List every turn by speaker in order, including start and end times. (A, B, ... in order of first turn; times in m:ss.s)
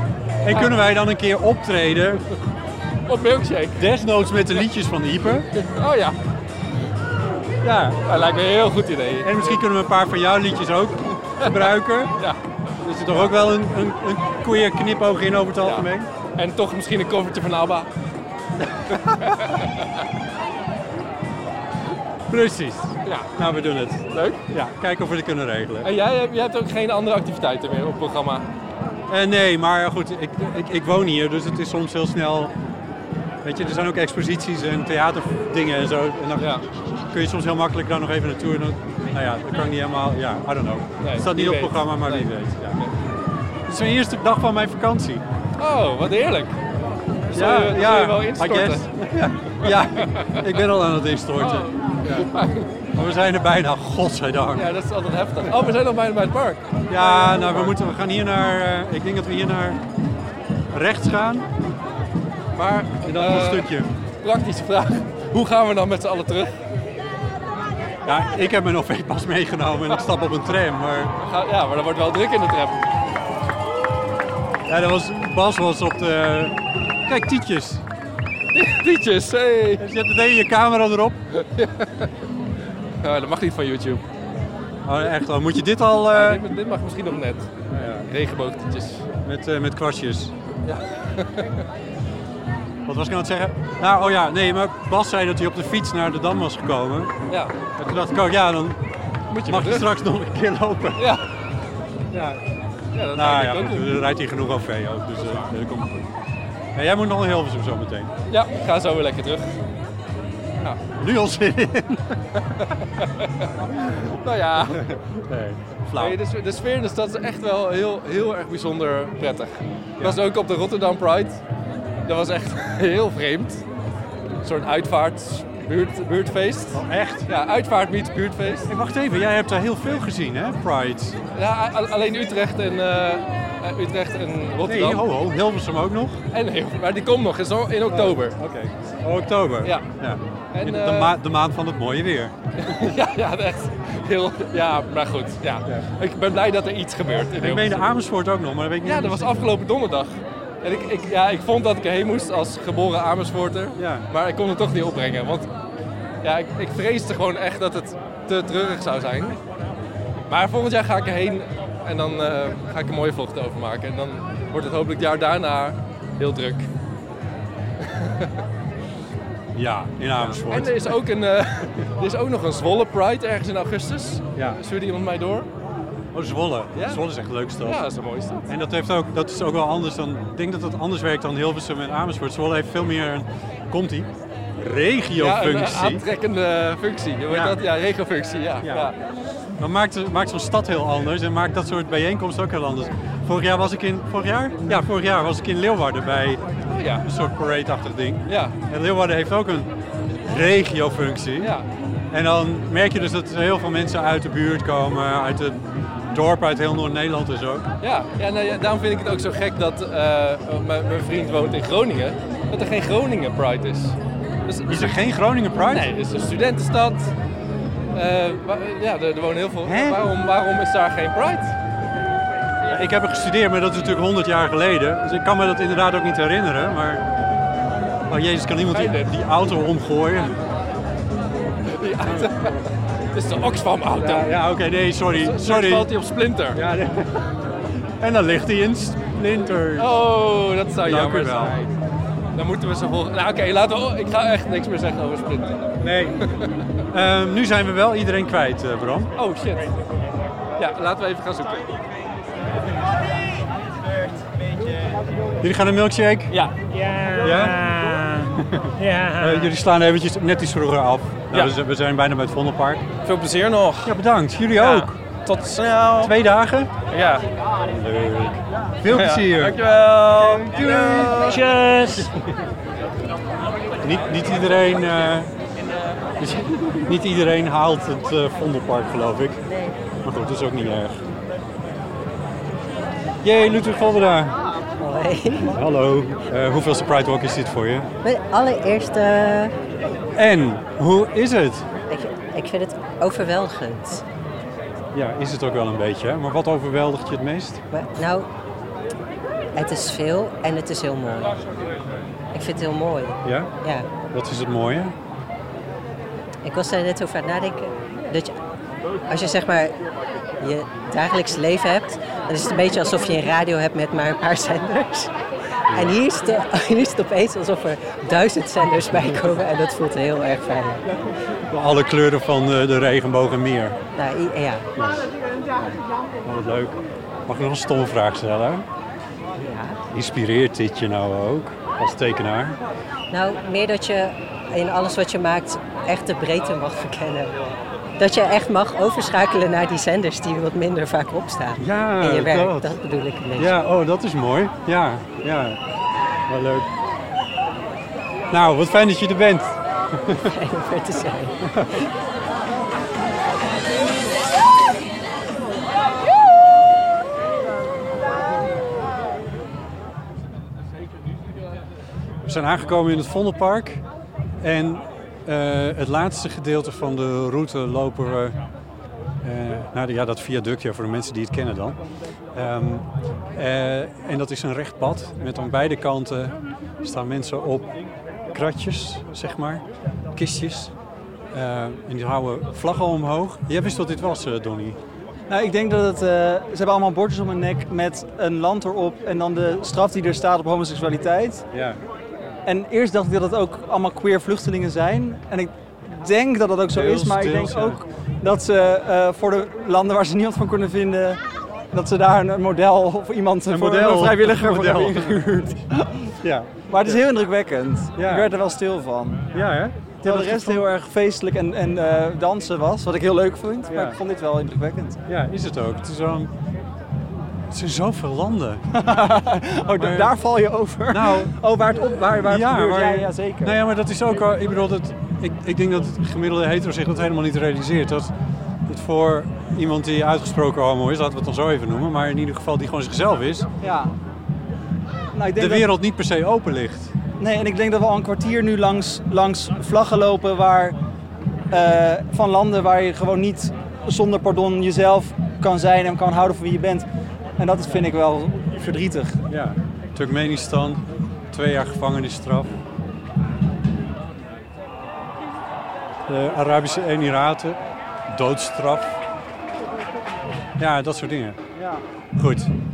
0:00.4-0:02.2 A
0:03.1-0:03.8 B
0:03.8-0:05.5 A
0:05.6-0:06.2 B
0:07.6-0:08.0 A
0:08.1-0:09.6 B
0:09.2-0:12.2 A
0:11.4-0:12.4 B
0:12.8-0:16.1 A
0:15.6-0:17.9 B
0:18.9-0:19.4 A
0:18.9-0:20.0 B
0:22.3-0:25.9 A
0:24.1-0:24.4 B
0:25.8-0:28.4 B
0:29.1-0:32.5 A
0:33.4-0:42.8 A
0:36.4-0:36.6 B
0:41.0-0:42.9 B
0:43.7-0:45.2 A
0:45.6-0:46.6 B
0:47.3-0:48.9 B
0:47.3-0:52.3 A
0:49.6-0:50.6 B
0:51.4-0:52.8 B
0:52.9-0:54.7 A
0:54.5-0:57.8 B
0:56.9-0:59.8 A
1:00.7-1:01.5 A
1:02.5-1:03.7 B
1:03.0-1:03.9 A
1:04.2-1:06.6 B
1:08.0-1:11.1 A
1:11.2-1:12.8 B
1:14.7-1:17.8 A
1:18.5-1:19.8 B
1:19.8-1:21.2 A
1:21.3-1:22.1 B
1:23.0-1:24.0 B
1:24.8-1:26.4 A
1:26.1-1:27.5 B
1:27.7-1:28.1 A
1:28.1-1:29.0 B
1:29.2-1:30.3 A
1:30.6-1:31.6 B
1:32.8-1:37.1 A
1:37.3-1:37.6 B
1:37.7-1:38.8 A
1:39.3-1:39.9 B
1:39.4-1:41.2 A
1:41.0-1:41.2 B
1:42.1-1:42.4 A
1:42.9-1:44.0 B
1:43.1-1:46.1 A
1:46.7-1:48.1 A
1:48.3-1:49.5 B
1:50.9-1:52.2 A
1:52.5-1:54.9 B
1:54.7-1:56.2 A
1:56.0-2:01.4 B
2:02.0-2:03.6 B
2:04.4-2:08.7 B
2:06.7-2:07.3 A
2:08.7-2:11.2 A
2:11.3-2:15.0 B
2:14.6-2:16.2 A
2:16.3-2:18.4 B
2:17.9-2:22.9 A
2:19.6-2:19.9 B
2:20.5-2:21.1 B
2:22.6-2:27.8 B
2:27.4-2:29.5 A
2:28.8-2:35.5 B
2:33.8-2:34.1 A
2:36.2-2:39.4 B
2:40.3-2:46.7 B
2:47.8-2:48.4 B
2:49.5-2:51.0 A
2:50.5-2:55.5 B
2:56.1-2:57.8 A
2:56.7-2:57.0 B
2:57.6-2:58.5 B
2:58.5-3:06.0 A
3:05.2-3:09.0 B
3:07.3-3:07.6 A
3:08.6-3:08.9 A
3:09.6-3:16.4 A
3:16.7-3:17.0 B
3:17.0-3:19.7 A
3:18.3-3:18.6 B
3:20.2-3:21.5 A
3:21.4-3:21.7 B
3:22.1-3:27.7 A
3:27.8-3:34.9 B
3:34.7-3:35.9 A
3:35.7-3:37.1 B
3:37.9-3:41.5 B
3:39.6-3:40.1 A
3:42.7-3:47.0 A
3:48.1-3:50.4 A
3:48.7-3:49.1 B
3:51.7-3:52.6 B
3:52.0-3:52.7 A
3:53.1-3:54.3 B
3:54.0-3:55.9 A
3:55.1-3:56.6 B
3:56.5-3:57.4 A
3:58.0-4:00.0 A
3:59.8-4:01.7 B
4:00.8-4:01.6 A
4:02.3-4:05.7 B
4:05.8-4:06.3 A
4:06.9-4:09.1 A
4:09.2-4:09.7 B
4:10.6-4:11.7 B
4:15.4-4:16.4 A
4:16.3-4:19.6 C
4:17.2-4:17.7 A
4:18.2-4:22.8 A
4:23.0-4:23.9 C
4:23.8-4:25.0 A
4:24.5-4:26.1 C
4:26.0-4:26.7 A
4:26.9-4:27.2 C
4:27.6-4:32.4 A
4:28.9-4:32.1 C
4:33.8-4:35.3 A
4:36.2-4:39.4 A
4:40.0-4:41.0 A
4:43.2-4:44.4 A
4:44.8-4:45.6 D
4:45.4-4:47.9 A
4:48.0-4:49.5 D
4:50.1-4:51.7 A
4:51.9-4:54.0 D
4:54.9-4:57.6 A
4:57.7-4:58.3 D
4:59.6-5:01.4 D
5:02.3-5:03.9 D
5:03.2-5:03.5 A
5:04.1-5:04.9 A
5:06.4-5:08.4 D
5:09.1-5:09.7 D
5:10.4-5:15.1 D
5:15.7-5:16.0 A
5:15.7-5:20.8 D
5:21.5-5:23.8 A
5:24.0-5:24.7 D
5:24.8-5:28.6 A
5:29.3-5:29.8 D
5:29.9-5:32.6 A
5:33.1-5:43.6 D
5:41.6-5:42.8 A
5:43.4-5:45.6 A
5:46.3-5:46.7 A
5:48.3-5:50.3 A
5:50.2-5:51.4 D
5:51.5-5:51.9 A
6:02.2-6:03.8 A
6:04.4-6:08.4 A
6:09.2-6:11.8 A
6:12.3-6:17.8 A
6:18.3-6:20.7 A
6:21.3-6:24.8 A
6:25.3-6:31.5 E
6:31.5-6:31.8 A
6:32.4-6:41.2 E
6:36.7-6:37.8 A
6:41.7-6:46.1 E
6:43.5-6:45.6 A
6:46.2-6:47.0 A
6:46.7-6:49.2 E
6:48.0-6:48.3 A
6:49.3-6:50.7 A
6:50.0-6:55.0 E
6:53.7-6:54.0 A
6:55.1-6:56.3 A
6:57.5-6:58.6 A
6:58.7-7:03.6 E
6:59.8-7:00.1 A
7:00.9-7:01.4 A
7:02.0-7:08.1 A
7:08.6-7:13.5 A
7:13.6-7:13.9 E
7:15.1-7:15.7 E
7:15.3-7:16.9 A
7:17.2-7:20.7 E
7:21.5-7:26.8 E
7:27.4-7:29.2 E
7:29.3-7:32.5 A
7:36.1-7:39.0 A
7:40.6-7:41.4 A
7:41.5-7:41.8 E
7:42.1-7:42.5 A